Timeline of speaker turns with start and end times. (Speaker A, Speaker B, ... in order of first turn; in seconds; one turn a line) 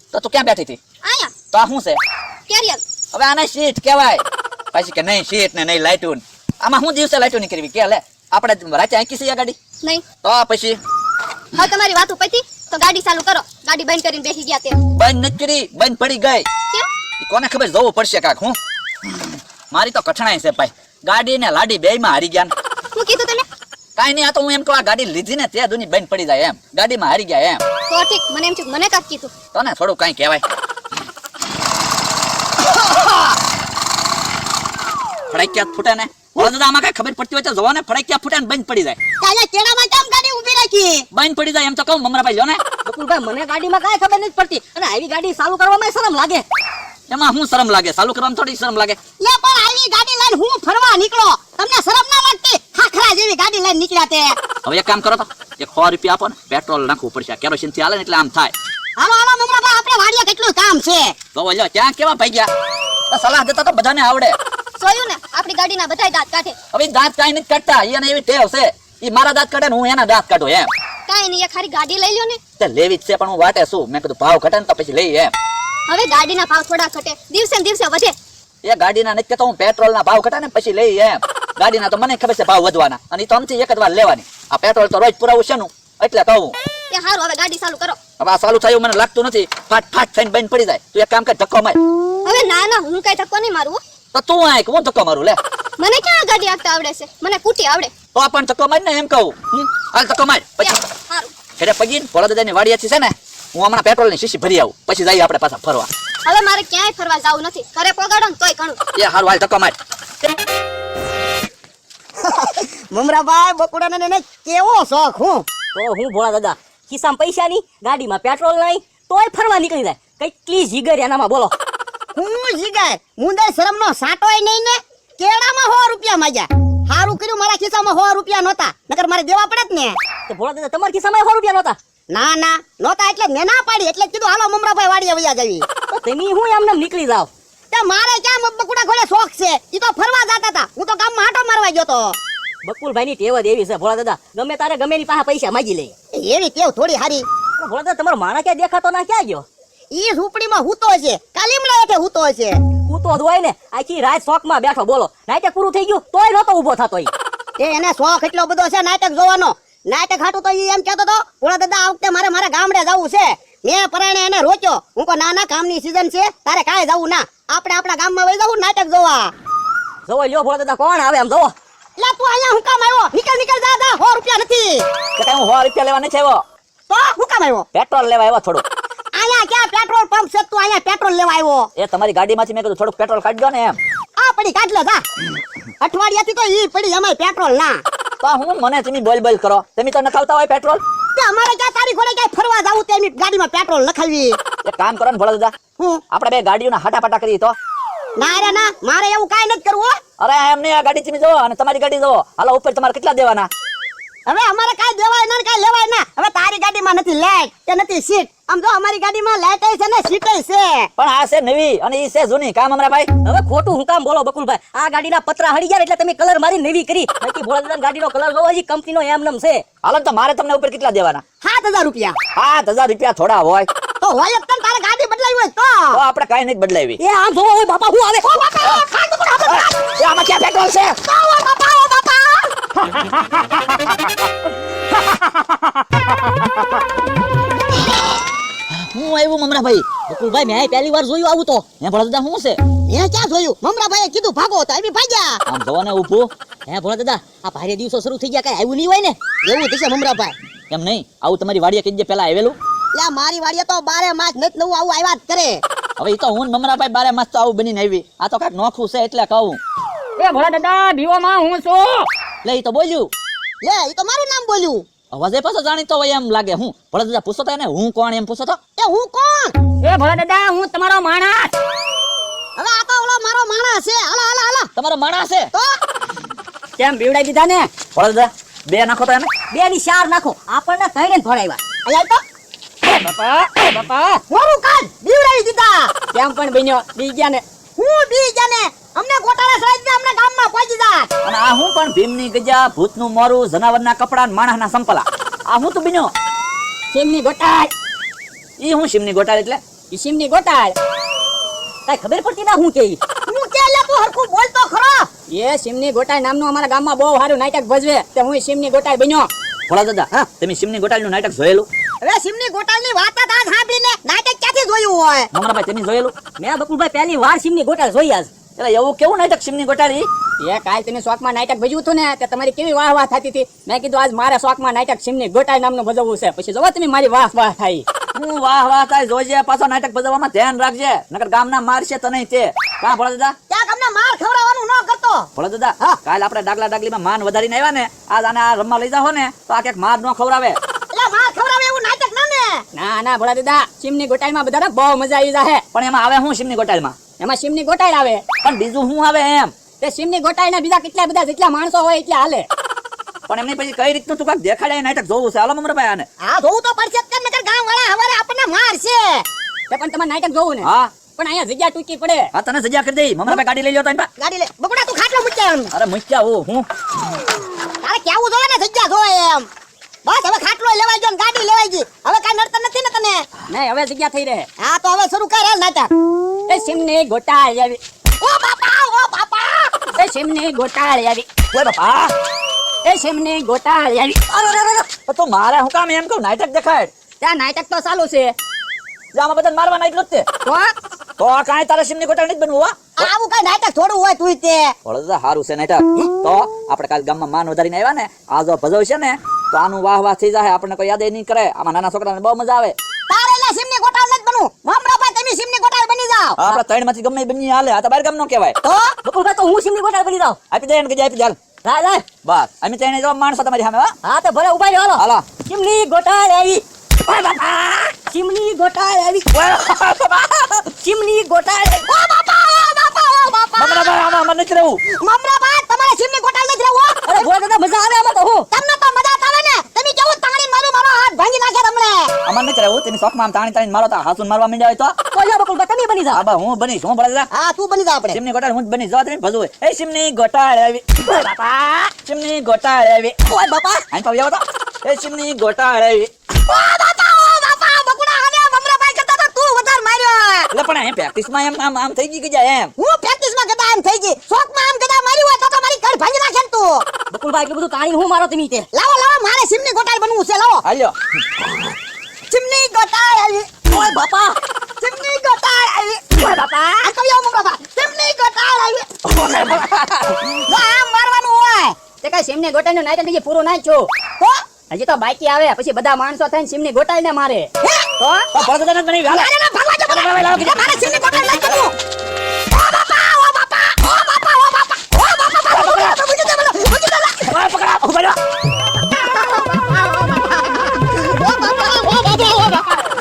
Speaker A: 0.1-0.8
Speaker B: 1.1-1.3
Speaker A: 1.5-2.0
Speaker B: 2.5-2.8
Speaker A: 3.1-9.6
Speaker A: 10.2-10.8
Speaker B: 11.5-14.8
Speaker A: 14.9-16.5
Speaker A: 17.2-18.6
Speaker A: 19.1-22.5
Speaker B: 22.9-23.4
Speaker A: 24.0-27.6
Speaker B: 27.9-29.3
Speaker A: 29.5-30.4
Speaker A: 35.3-39.0
Speaker C: 39.2-41.0
Speaker A: 41.1-42.6
Speaker D: 42.9-46.5
Speaker A: 47.1-49.0
Speaker C: 49.2-54.3
Speaker A: 54.6-58.5
Speaker C: 59.0-61.1
Speaker A: 61.4-62.5
Speaker A: 63.1-64.4
Speaker B: 64.8-66.6
Speaker A: 66.7-70.7
Speaker B: 71.1-72.4
Speaker A: 72.6-75.3
Speaker B: 75.9-78.1
Speaker A: 78.6-86.6
Speaker B: 86.9-88.0
Speaker A: 88.2-91.8
Speaker B: 92.2-93.8
Speaker A: 94.1-95.4
Speaker B: 95.8-97.9
Speaker A: 98.2-100.7
Speaker B: 100.6-101.3
Speaker A: 101.6-105.9
Speaker B: 106.3-108.8
Speaker A: 109.0-109.8
Speaker C: 112.2-115.5
Speaker D: 115.7-121.5
Speaker C: 122.2-130.0
Speaker D: 130.3-131.8
Speaker C: 132.1-135.7
Speaker D: 135.9-137.3
Speaker C: 137.7-142.2
Speaker D: 142.7-145.9
Speaker C: 146.1-147.3
Speaker D: 147.6-149.4
Speaker C: 149.9-152.6
Speaker D: 152.9-157.1
Speaker C: 157.6-169.3
Speaker D: 170.1-171.5
Speaker C: 172.0-174.8
Speaker A: 175.2-176.4
Speaker C: 176.9-177.7
Speaker A: 177.7-178.6
Speaker C: 179.2-181.7
Speaker A: 181.8-183.8
Speaker C: 184.2-185.0
Speaker C: 185.8-187.8
Speaker A: 188.2-190.8
Speaker C: 191.2-194.4
Speaker A: 194.7-195.5
Speaker A: 196.1-197.6
Speaker C: 198.2-199.9
Speaker A: 200.2-203.5
Speaker C: 204.3-210.9
Speaker A: 211.0-213.1
Speaker D: 213.2-219.6
Speaker A: 219.8-221.2
Speaker C: 221.4-222.2
Speaker A: 222.3-223.7
Speaker C: 224.0-226.0
Speaker A: 225.9-227.0
Speaker D: 227.0-228.4
Speaker C: 228.2-229.8
Speaker A: 229.5-231.0
Speaker C: 231.1-232.5
Speaker A: 238.7-239.9
Speaker D: 240.1-241.7
Speaker A: 241.8-242.6
Speaker C: 242.9-245.4
Speaker A: 245.5-246.3
Speaker D: 246.7-249.2
Speaker C: 249.5-250.3
Speaker A: 250.7-252.6
Speaker C: 252.9-255.6
Speaker A: 256.0-259.6
Speaker B: 260.2-262.1
Speaker A: 262.4-263.1
Speaker C: 263.6-264.8
Speaker A: 265.1-268.6
Speaker C: 268.8-269.6
Speaker B: 269.9-271.5
Speaker C: 272.6-274.7
Speaker A: 274.8-275.5
Speaker E: 276.8-277.7
Speaker A: 277.9-279.3
Speaker D: 279.5-281.6
Speaker C: 281.9-282.2
Speaker B: 282.9-284.2
Speaker C: 284.3-285.9
Speaker E: 286.1-287.4
Speaker C: 287.8-291.1
Speaker A: 291.2-296.1
Speaker E: 296.9-297.7
Speaker A: 298.6-299.6
Speaker E: 299.9-300.7
Speaker D: 301.9-303.0
Speaker C: 303.3-305.1
Speaker E: 305.3-309.3
Speaker A: 309.7-311.7
Speaker C: 312.0-315.3
Speaker A: 315.3-316.1
Speaker D: 316.4-318.3
Speaker A: 318.6-320.1
Speaker E: 320.4-327.8
Speaker A: 328.1-333.4
Speaker C: 333.5-335.3
Speaker A: 335.4-340.6
Speaker C: 340.9-342.6
Speaker E: 342.8-345.6
Speaker A: 345.7-347.0
Speaker E: 347.2-348.2
Speaker A: 348.4-349.5
Speaker E: 349.8-352.5
Speaker A: 353.3-356.1
Speaker C: 356.2-359.2
Speaker E: 359.7-360.6
Speaker A: 360.6-360.9
Speaker E: 361.2-362.3
Speaker A: 362.3-364.1
Speaker C: 364.2-365.7
Speaker A: 365.7-366.7
Speaker C: 367.8-369.5
Speaker C: 370.1-373.3
Speaker E: 373.5-374.4
Speaker C: 374.6-375.9
Speaker E: 376.5-377.8
Speaker C: 378.2-379.8
Speaker E: 380.1-381.2
Speaker B: 380.8-381.2
Speaker A: 381.5-382.1
Speaker E: 382.9-384.0
Speaker B: 383.8-384.2
Speaker D: 384.3-384.9
Speaker A: 385.0-386.9
Speaker E: 387.2-388.2
Speaker B: 387.5-388.3
Speaker A: 389.1-390.3
Speaker B: 390.5-390.7
Speaker A: 391.2-393.1
Speaker C: 393.0-394.7
Speaker A: 394.9-402.8
Speaker C: 403.1-406.4
Speaker A: 406.4-408.6
Speaker C: 408.6-408.9
Speaker D: 409.1-410.4
Speaker A: 410.5-411.4
Speaker D: 411.6-412.2
Speaker A: 412.2-413.9
Speaker D: 414.1-419.3
Speaker A: 415.0-415.4
Speaker A: 419.3-420.7
Speaker D: 420.8-421.9
Speaker C: 421.9-424.1
Speaker A: 423.6-424.8
Speaker C: 425.0-427.3
Speaker D: 427.1-428.5
Speaker C: 428.5-432.1
Speaker A: 432.2-434.9
Speaker D: 435.1-436.2
Speaker A: 436.1-437.3
Speaker C: 437.3-438.2
Speaker A: 438.1-441.0
Speaker D: 441.2-441.8
Speaker A: 442.0-443.2
Speaker D: 443.3-443.9
Speaker A: 443.9-446.1
Speaker C: 446.5-450.5
Speaker A: 450.5-452.7
Speaker C: 452.8-456.9
Speaker D: 457.1-458.7
Speaker C: 458.7-460.6
Speaker A: 460.6-460.9
Speaker C: 462.3-463.7
Speaker D: 463.7-464.4
Speaker C: 464.8-466.0
Speaker B: 466.3-466.9
Speaker C: 466.8-468.9
Speaker A: 469.1-470.2
Speaker C: 470.4-471.8
Speaker E: 472.0-473.9
Speaker E: 474.7-477.5
Speaker A: 478.3-479.3
Speaker C: 479.1-481.7
Speaker A: 479.9-480.8
Speaker C: 482.5-487.3
Speaker A: 485.5-486.0
Speaker A: 487.3-488.2
Speaker C: 489.0-489.8
Speaker C: 490.9-492.7